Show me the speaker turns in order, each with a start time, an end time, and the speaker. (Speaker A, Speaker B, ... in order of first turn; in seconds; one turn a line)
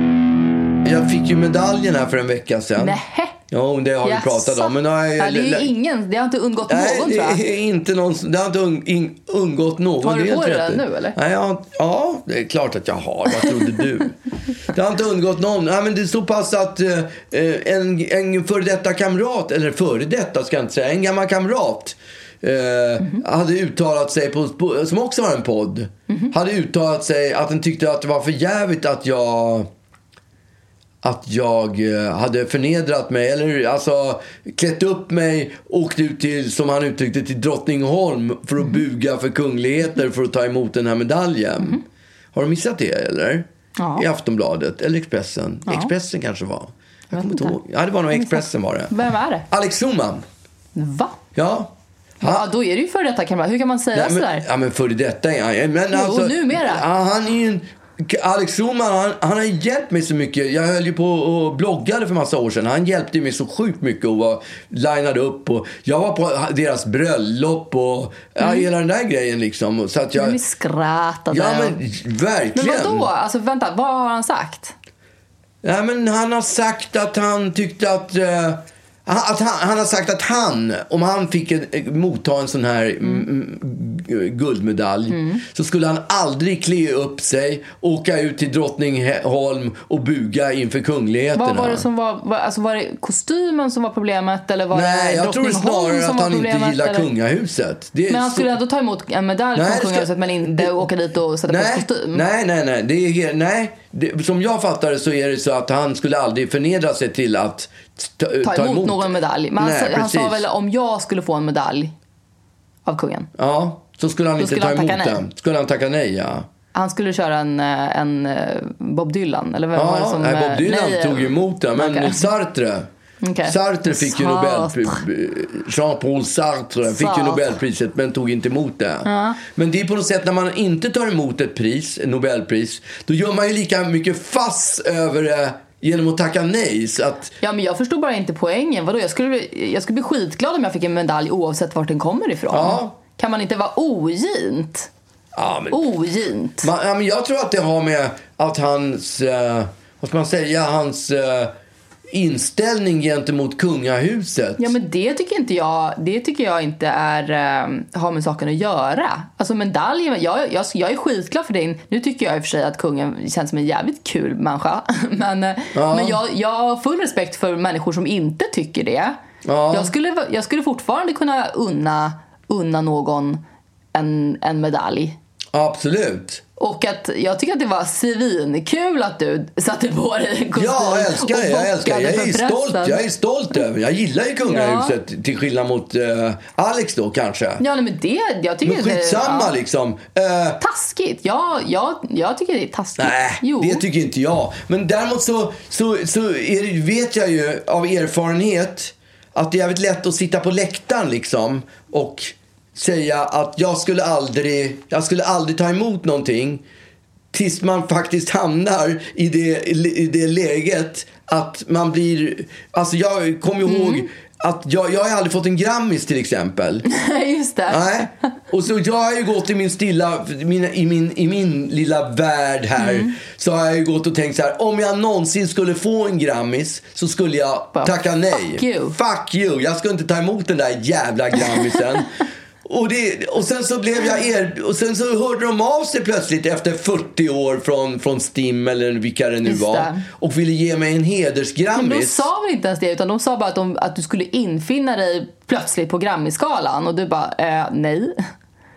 Speaker A: 0.8-3.0
Speaker B: 2.8-3.4
Speaker A: 3.5-5.7
Speaker B: 4.0-7.4
Speaker A: 6.7-14.2
Speaker B: 10.0-11.2
Speaker A: 14.7-29.7
Speaker A: 31.0-41.8
Speaker A: 42.3-48.9
Speaker B: 43.8-44.0
Speaker B: 47.1-47.6
Speaker B: 48.1-49.5
Speaker A: 49.5-50.2
Speaker B: 50.7-51.2
Speaker A: 51.3-52.5
Speaker B: 52.2-54.5
Speaker A: 53.9-70.4
Speaker B: 55.9-56.8
Speaker B: 68.4-68.7
Speaker B: 70.2-71.8
Speaker A: 71.3-73.1
Speaker B: 72.5-74.8
Speaker A: 75.6-91.9
Speaker B: 85.1-85.4
Speaker B: 91.3-97.1
Speaker A: 94.7-98.5
Speaker B: 98.1-102.2
Speaker A: 99.5-100.8
Speaker A: 101.5-110.5
Speaker B: 108.4-111.9
Speaker B: 112.9-113.3
Speaker A: 113.4-116.5
Speaker B: 114.4-115.2
Speaker B: 116.7-122.3
Speaker A: 119.7-122.9
Speaker B: 123.2-125.0
Speaker A: 123.5-137.3
Speaker B: 126.9-127.5
Speaker B: 129.1-129.4
Speaker B: 137.4-144.9
Speaker A: 142.5-143.0
Speaker A: 145.3-145.9
Speaker B: 145.7-146.7
Speaker A: 146.6-151.5
Speaker A: 152.1-154.8
Speaker B: 154.6-169.2
Speaker A: 165.7-166.2
Speaker A: 169.4-169.9
Speaker B: 169.7-173.4
Speaker B: 173.9-175.2
Speaker A: 175.5-176.4
Speaker B: 176.6-183.0
Speaker A: 180.5-187.6
Speaker B: 184.5-185.0
Speaker B: 187.6-189.5
Speaker A: 188.6-190.6
Speaker B: 190.6-193.8
Speaker A: 193.0-206.6
Speaker A: 207.3-216.9
Speaker B: 213.7-214.1
Speaker B: 216.9-218.1
Speaker A: 217.7-232.1
Speaker B: 222.8-223.2
Speaker B: 227.8-229.0
Speaker A: 232.6-242.3
Speaker B: 239.4-240.1
Speaker B: 241.7-248.2